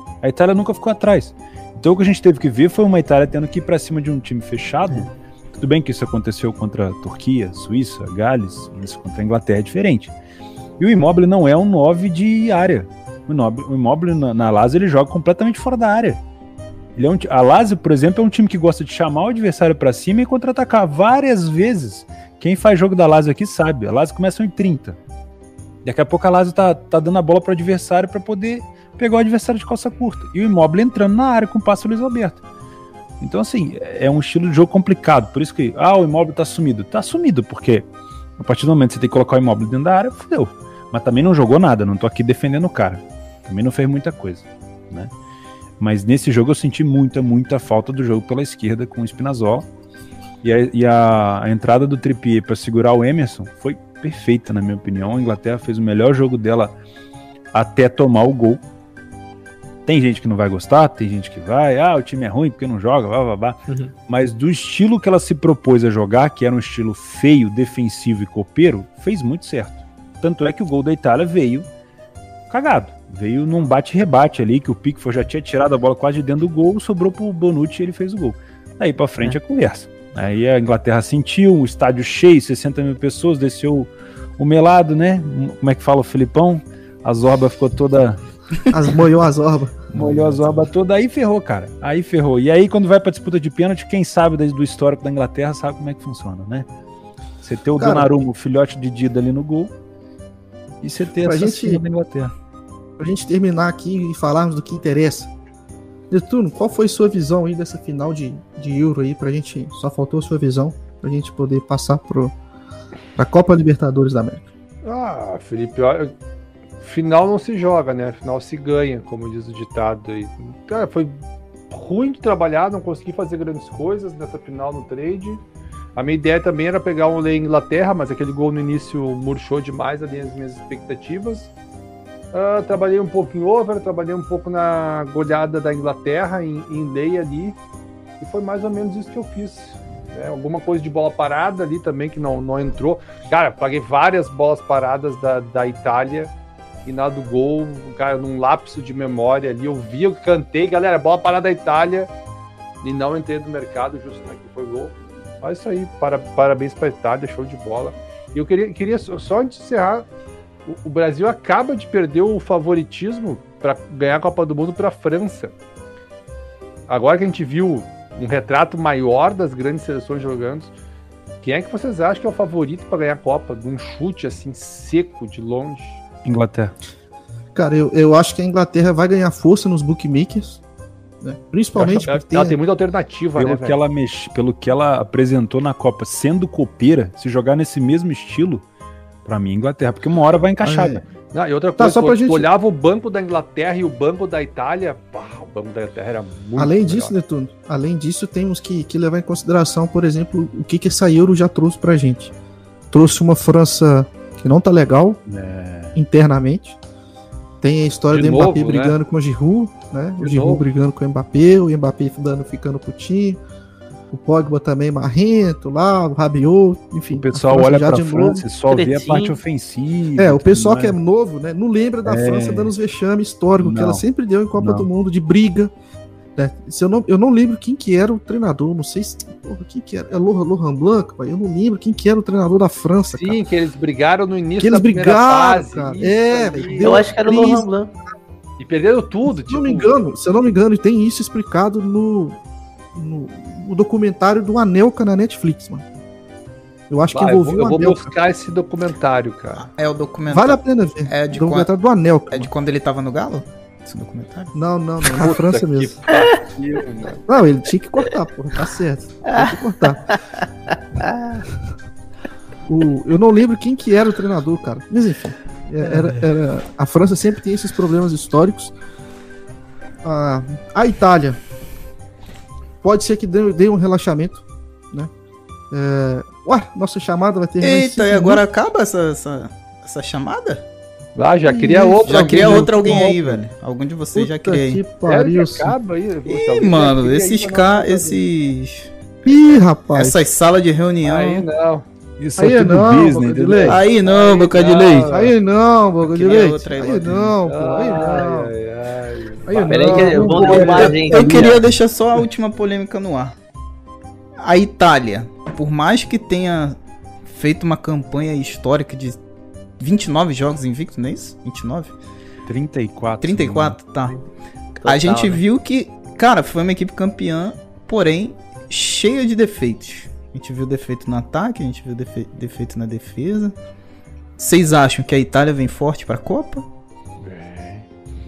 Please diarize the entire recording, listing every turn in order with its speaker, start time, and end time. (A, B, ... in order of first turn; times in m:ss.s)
0:00.2-0:10.1 A
0:10.8-0:16.2 A
0:17.0-0:25.0 A
0:25.8-0:32.4 A
0:33.2-0:37.9 A
0:38.4-0:45.1 A
0:45.8-0:49.7 A
0:50.4-0:56.8 A
0:57.5-0:58.6 A
0:59.9-1:11.7 A
1:03.7-1:03.9 B
1:12.5-1:28.2 A
1:28.7-1:29.8 C
1:29.9-1:30.7 D
1:29.9-1:36.7 A
1:37.4-1:39.7 A
1:37.8-1:38.1 C
1:40.8-1:42.3 A
1:41.2-1:41.8 C
1:43.0-1:45.3 C
1:46.1-1:52.3 C
1:53.2-1:54.4 C
1:54.8-1:56.1 E
1:56.8-2:01.2 E
2:01.7-2:05.4 E
2:06.0-2:11.5 E
2:12.3-2:17.6 E
2:18.2-2:26.3 E
2:26.8-2:32.1 E
2:32.8-2:40.1 E
2:40.7-2:45.6 E
2:46.9-2:50.7 E
2:51.4-2:56.0 E
2:56.2-2:56.7 A
2:57.6-3:00.6 C
3:01.2-3:02.6 C
3:01.8-3:03.8 E
3:03.4-3:08.6 A
3:09.2-3:11.0 A
3:10.6-3:11.0 C
3:11.3-3:17.1 E
3:11.8-3:12.5 C
3:16.6-3:22.3 C
3:22.9-3:25.2 C
3:25.3-3:26.0 A
3:26.0-3:26.8 C
3:27.6-3:33.4 C
3:28.1-3:29.0 E
3:30.2-3:30.7 E
3:34.1-3:38.4 C
3:37.1-3:41.0 A
3:38.7-3:39.4 B
3:40.2-3:45.7 C
3:42.0-3:42.7 A
3:43.6-3:44.0 A
3:44.6-3:44.9 A
3:46.4-3:53.4 C
3:53.2-3:57.0 E
3:54.6-3:57.7 C
3:56.8-3:57.9 B
3:58.6-3:59.9 E
3:59.3-4:02.4 C
4:02.9-4:05.8 C
4:06.9-4:08.2 C
4:07.1-4:09.7 E
4:09.6-4:11.7 D
4:10.3-4:12.5 C
4:12.3-4:14.5 D
4:14.6-4:16.0 C
4:15.1-4:17.2 E
4:16.1-4:16.4 B
4:17.3-4:20.2 C
4:19.2-4:19.6 B
4:20.1-4:21.4 B
4:22.7-4:28.7 C
4:25.8-4:26.2 B
4:30.0-4:31.4 C
4:32.8-4:35.1 C
4:35.7-4:38.4 C
4:37.6-4:40.6 D
4:41.2-4:43.4 E
4:41.5-4:43.2 C
4:42.0-4:44.8 D
4:44.1-4:45.7 C
4:45.1-4:48.2 E
4:46.3-4:48.9 D
4:49.2-4:50.2 C
4:49.9-4:51.5 D
4:51.0-4:51.8 E
4:52.2-4:53.8 A
4:52.4-4:53.8 C
4:53.6-4:55.2 D
4:53.8-4:55.3 E
4:55.1-4:58.5 C
4:56.0-4:57.4 D
4:57.4-5:00.7 E
4:59.5-5:01.4 C
4:59.7-5:01.6 B
5:00.2-5:01.6 A
5:00.7-5:03.4 D
5:04.4-5:09.2 D
5:09.8-5:11.9 D
5:12.5-5:13.8 A
5:13.2-5:14.2 D
5:14.8-5:15.4 B
5:14.8-5:23.5 D
5:24.4-5:26.7 D
5:27.3-5:27.8 A
5:27.3-5:27.7 E